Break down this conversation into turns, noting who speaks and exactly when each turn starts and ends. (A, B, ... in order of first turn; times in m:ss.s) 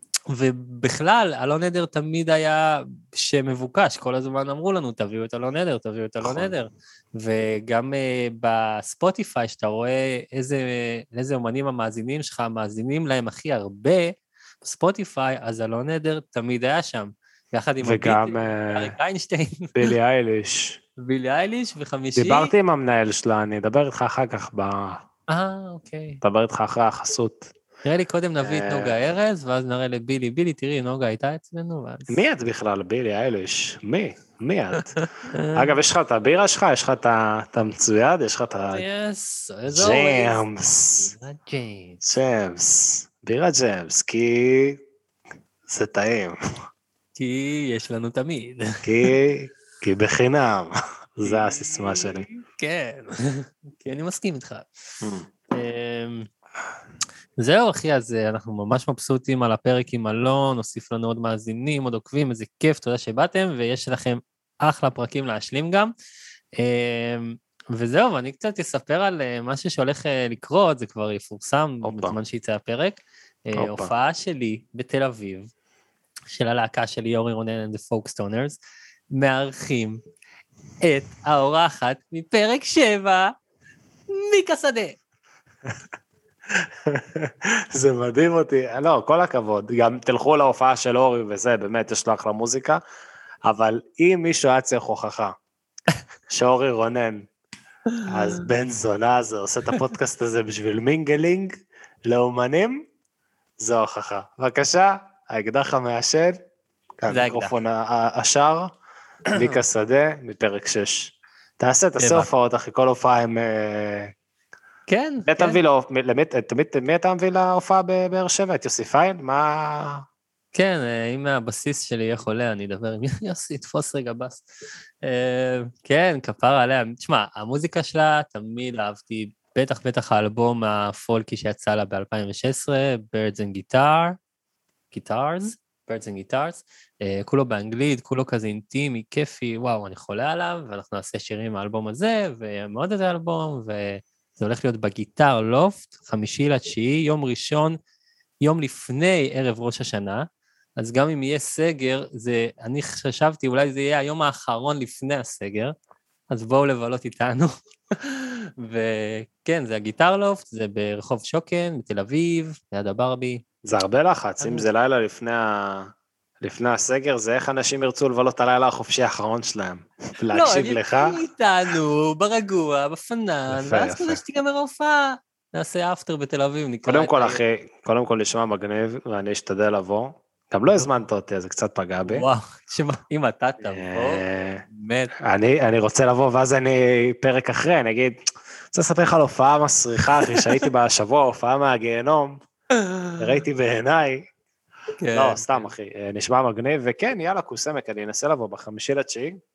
0:00.3-0:19.7 A
0:06.2-0:06.5 B
0:17.8-0:18.9 B
0:19.8-0:20.8 B
0:21.0-0:22.5 A
0:22.2-0:25.0 B
0:25.3-0:26.2 A
0:26.2-0:27.5 B
0:27.8-0:32.2 A
0:28.4-0:28.9 B
0:32.1-0:35.0 B
0:35.3-0:35.7 A
0:35.6-0:38.8 B
0:38.7-0:40.4 A
0:39.7-0:41.1 B
0:41.0-0:42.0 A
0:42.0-0:44.8 B
0:45.7-0:46.4 B
0:47.2-0:49.1 A
0:48.8-0:52.3 B
0:51.2-0:54.7 A
0:55.5-0:56.3 A
0:57.4-1:05.9 A
1:06.6-1:15.5 A
1:11.8-1:12.2 B
1:13.6-1:13.9 B
1:16.3-1:18.6 A
1:19.1-1:20.0 A
1:20.8-1:23.3 A
1:24.1-1:25.0 A
1:26.6-1:32.8 B
1:33.4-1:35.3 B
1:36.3-1:37.3 B
1:38.1-1:41.5 B
1:42.1-1:42.8 B
1:43.6-1:46.4 B
1:47.0-1:48.7 B
1:47.1-1:47.5 A
1:49.3-1:54.1 B
1:49.3-1:49.6 A
1:52.0-1:52.3 A
1:54.9-1:55.6 A
1:55.3-2:00.0 B
2:00.5-2:04.5 A
2:05.0-2:14.2 A
2:14.9-2:27.8 A
2:28.4-2:30.2 A
2:30.8-2:35.7 A
2:36.3-2:43.4 A
2:43.7-2:45.9 B
2:44.4-2:44.6 A
2:46.4-2:51.2 B
2:50.3-2:57.4 A
2:53.5-2:54.2 B
2:56.9-3:02.2 B
3:02.1-3:04.2 A
3:03.7-3:04.6 B
3:04.8-3:05.1 A
3:05.2-3:08.2 B
3:08.7-3:12.4 B
3:12.8-3:13.2 A
3:13.2-3:14.2 B
3:15.0-3:15.7 A
3:15.1-3:19.4 B